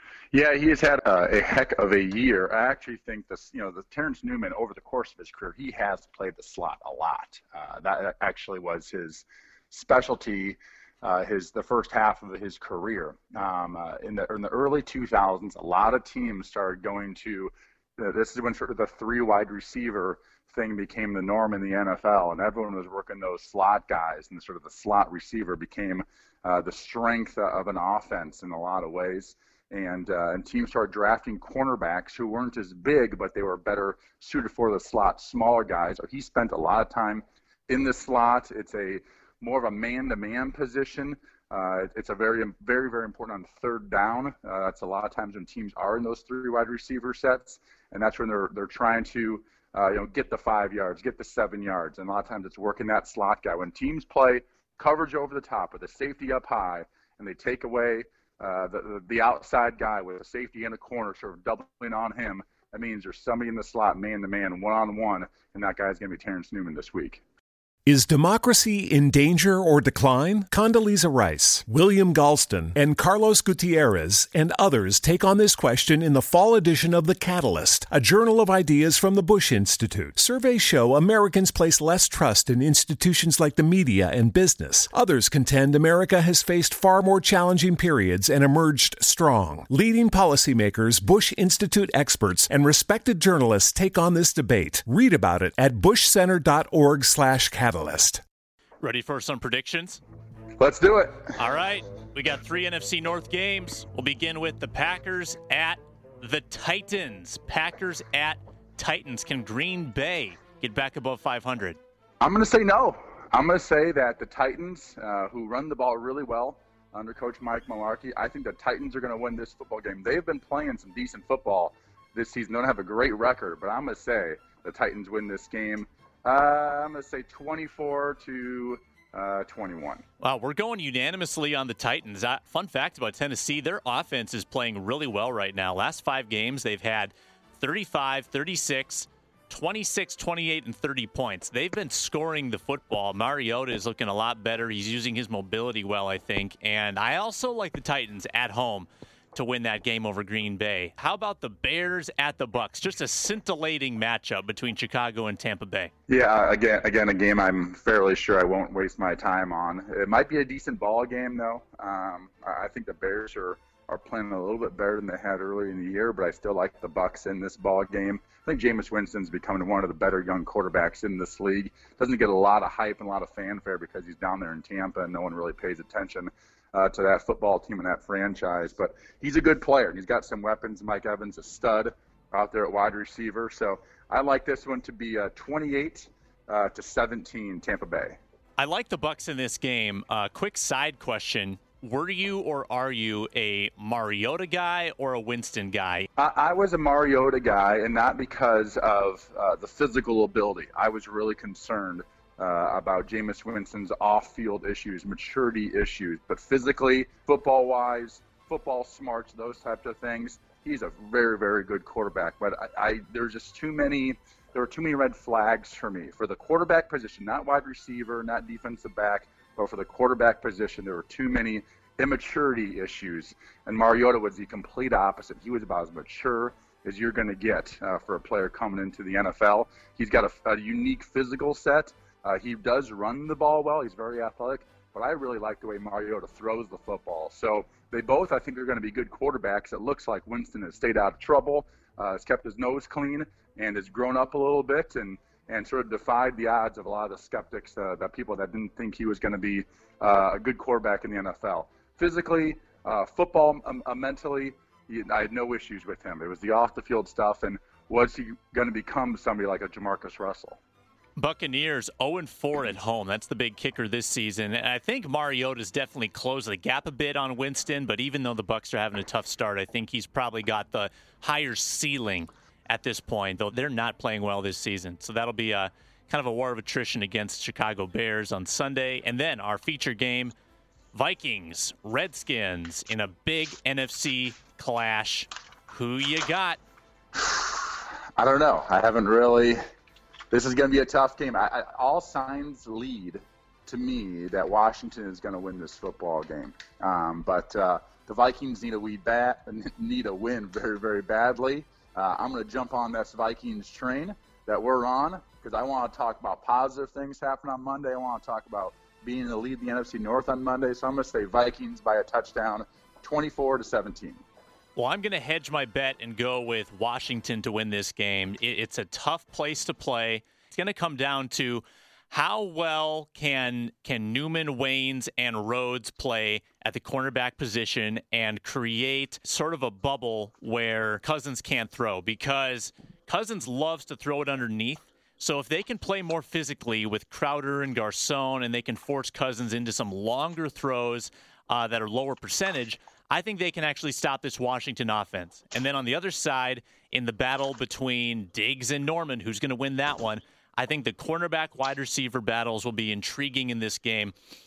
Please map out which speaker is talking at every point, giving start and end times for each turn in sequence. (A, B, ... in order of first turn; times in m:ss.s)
0:00.3-1:07.2 A
1:07.9-1:38.2 B
1:38.8-1:40.0 C
1:40.6-1:41.3 A
1:41.4-1:51.8 C
1:52.2-2:10.0 A
2:10.2-2:35.9 C
2:36.1-3:08.2 A
3:08.6-3:16.1 C
3:16.2-4:20.6 A
4:21.2-4:40.3 C
4:40.9-4:46.6 C
4:47.1-4:49.6 A
4:50.3-5:14.2 A
5:14.8-5:54.1 C